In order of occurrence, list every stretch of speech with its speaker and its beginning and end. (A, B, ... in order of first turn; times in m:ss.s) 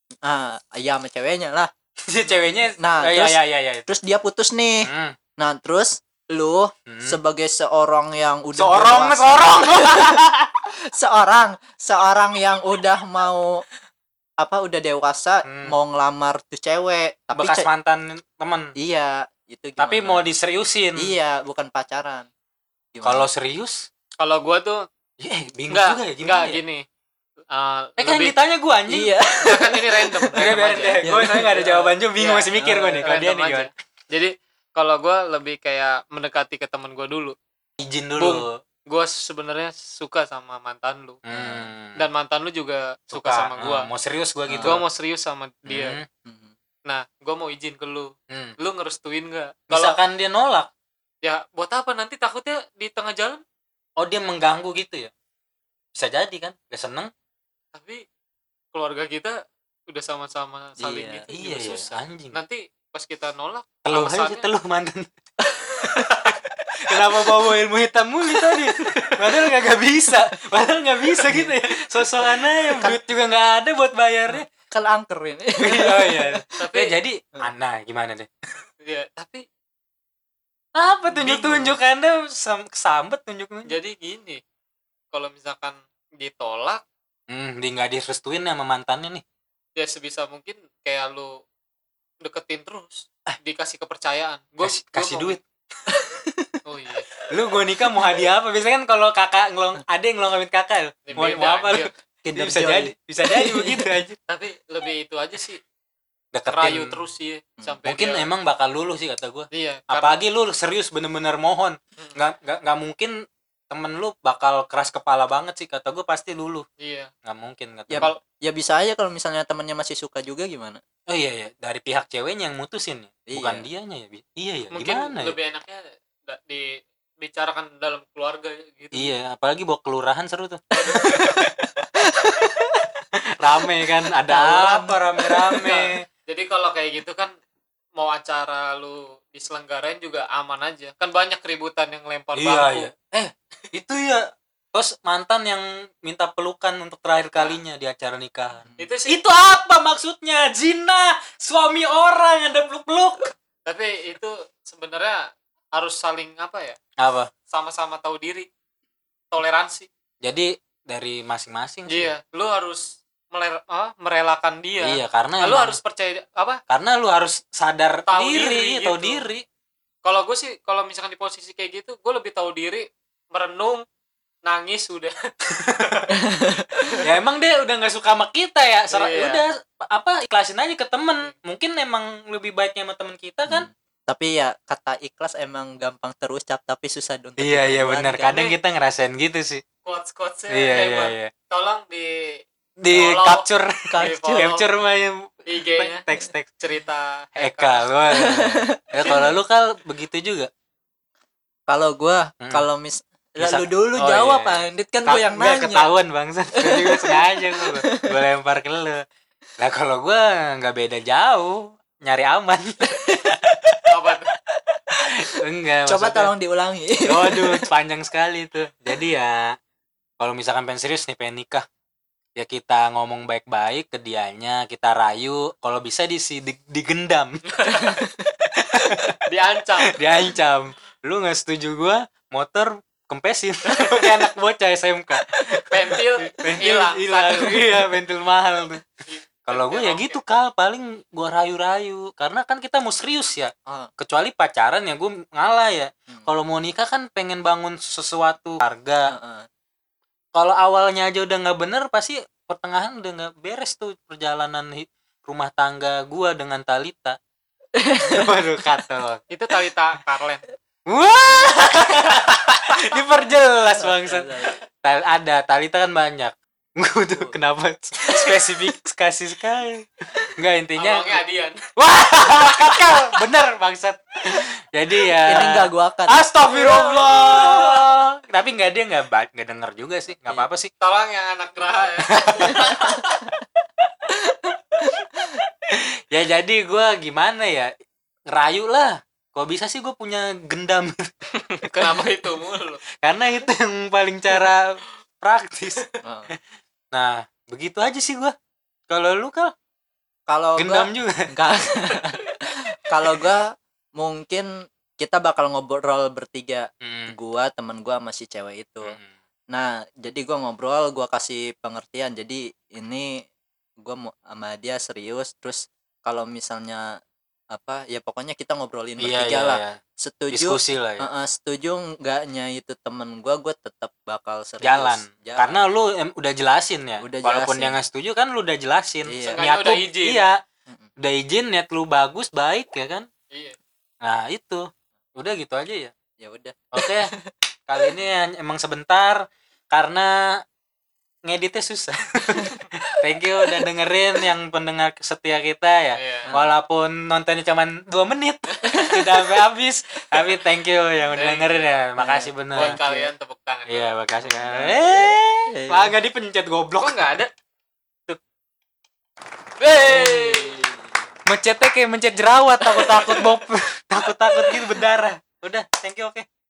0:00.2-0:01.7 A
0:02.1-0:04.0 B
0:02.8-0:10.2 A
0:04.8-0:05.2 B
0:06.9-0:07.2 B
0:08.6-0:10.6 B
0:10.9-0:13.6 A
0:14.4-0:17.7 A
0:15.4-0:15.7 B
0:17.3-0:18.7 B
0:18.8-0:20.2 A
0:19.8-0:21.1 B
0:21.0-0:22.3 A
0:22.9-0:23.3 A
0:23.0-0:23.8 B
0:24.2-0:24.8 C
0:25.2-0:26.6 B
0:25.7-0:26.8 C
0:27.5-0:28.4 C
0:28.0-0:29.1 B
0:28.9-0:31.9 A
0:29.4-0:37.4 C
0:30.3-0:33.7 B
0:32.5-0:33.0 A
0:37.8-0:38.5 B
0:38.2-0:41.2 C
0:41.2-0:42.0 B
0:41.3-0:41.7 A
0:42.0-0:43.9 C
0:43.1-0:44.8 B
0:44.5-0:44.8 A
0:44.6-0:46.0 C
0:45.7-0:46.0 B
0:46.2-0:46.5 A
0:46.8-0:50.0 C
0:49.7-0:50.7 B
0:51.2-0:53.4 C
0:54.0-0:55.1 B
0:55.9-0:57.1 B
0:57.7-0:58.0 C
0:58.7-0:59.3 C
0:59.9-1:04.5 C
1:00.8-1:01.2 A
1:01.3-1:02.4 B
1:03.8-1:05.1 B
1:05.4-1:06.3 A
1:05.8-1:14.5 B
1:08.4-1:09.5 A
1:11.2-1:11.5 A
1:12.7-1:13.0 A
1:14.3-1:16.4 A
1:15.6-1:18.3 B
1:16.6-1:16.9 C
1:18.8-1:19.4 C
1:20.8-1:23.7 B
1:21.1-1:21.8 C
1:23.7-1:24.4 C
1:25.1-1:26.8 C
1:27.3-1:29.2 B
1:29.8-1:31.3 C
1:32.2-1:35.4 C
1:34.6-1:35.4 B
1:35.9-1:36.6 A
1:36.6-1:37.1 C
1:37.3-1:44.2 B
1:37.8-1:38.1 A
1:41.1-1:41.9 C
1:42.3-1:44.0 A
1:44.3-1:45.6 C
1:46.3-1:46.9 B
1:46.5-1:48.3 C
1:47.8-1:53.1 B
1:49.5-1:50.2 C
1:53.7-1:56.6 B
1:56.8-1:57.1 C
1:57.2-1:58.1 B
1:57.9-2:00.8 A
2:01.1-2:05.3 B
2:03.3-2:03.6 A
2:04.7-2:06.6 C
2:07.2-2:09.1 C
2:08.9-2:11.7 B
2:10.7-2:11.4 C
2:12.0-2:12.8 A
2:13.4-2:16.0 B
2:14.3-2:15.6 A
2:15.6-2:17.3 C
2:18.0-2:22.9 C
2:22.3-2:33.3 B
2:28.6-2:28.9 A
2:28.8-2:29.2 C
2:33.6-2:35.2 C
2:35.7-2:36.8 C
2:37.0-2:37.3 B
2:37.5-2:38.5 C
2:39.3-2:39.9 C
2:40.2-2:42.1 B
2:41.9-2:46.6 C
2:44.8-2:45.8 B
2:46.7-2:49.4 B
2:48.1-2:49.3 C
2:50.0-2:53.8 C
2:54.4-2:55.1 C
2:55.7-2:56.2 C
2:56.1-2:56.7 A
2:57.0-3:03.7 B
2:58.9-2:59.4 C
3:03.5-3:08.3 A
3:07.4-3:09.6 B
3:08.3-3:08.5 C
3:09.8-3:14.6 C
3:10.5-3:11.3 B
3:12.8-3:16.5 B
3:13.9-3:14.6 A
3:15.5-3:16.0 C
3:16.6-3:17.9 C
3:17.4-3:20.5 B
3:18.1-3:19.4 A
3:19.0-3:19.3 C
3:21.7-3:25.9 A
3:22.4-3:22.6 B
3:23.4-3:29.0 B
3:26.6-3:28.1 A
3:29.6-3:33.9 B
3:33.0-3:33.3 A
3:33.9-3:34.3 C
3:34.7-3:37.7 A
3:35.0-3:36.3 B
3:37.1-3:39.5 B
3:40.2-3:41.6 B
3:42.4-3:49.2 B
3:47.6-3:48.0 C
3:49.3-3:50.0 C
3:49.9-3:58.8 B
3:55.7-3:57.6 C
3:59.1-4:00.2 C
3:59.5-4:09.1 B
4:09.1-4:09.5 A
4:10.3-4:17.2 B
4:17.8-4:18.2 A
4:18.1-4:19.2 B
4:19.3-4:20.4 C
4:20.9-4:31.2 B
4:23.8-4:24.6 A
4:30.8-4:31.6 C
4:31.8-4:40.7 B
4:35.2-4:36.2 A
4:36.5-4:37.6 C
4:37.2-4:37.8 A
4:40.8-4:43.0 C
4:42.1-4:42.9 B
4:42.6-4:43.4 A
4:44.1-4:45.2 A
4:45.7-4:47.7 B
4:48.3-4:51.1 B
4:51.4-4:52.8 C
4:53.0-4:55.9 B
4:56.0-4:56.3 A
4:56.9-4:58.3 B
4:58.9-4:59.5 B
5:00.3-5:04.5 A
5:00.6-5:01.3 B
5:05.0-5:09.0 A
5:06.8-5:07.1 B
5:08.8-5:09.2 B
5:09.5-5:13.1 A
5:13.8-5:16.8 A
5:17.5-5:25.6 A
5:19.0-5:19.8 B
5:20.3-5:21.1 B
5:24.6-5:30.3 B
5:27.0-5:27.8 A
5:29.0-5:29.4 A
5:29.2-5:30.2 C
5:31.0-5:33.0 B
5:33.3-5:33.6 C
5:34.0-5:34.6 B
5:35.2-5:35.9 B
5:36.2-5:36.9 A
5:36.7-5:37.1 B
5:37.7-5:40.1 B
5:41.2-5:52.8 B
5:46.0-5:46.3 C
5:48.6-5:49.4 A
5:51.1-5:51.5 C
5:52.0-5:53.1 A
5:52.5-5:53.9 C
5:53.7-5:57.1 B
5:54.2-5:55.9 A
5:56.8-5:57.3 C
5:59.6-6:00.6 C
5:59.8-6:00.9 A
6:01.3-6:06.2 B
6:02.8-6:03.1 A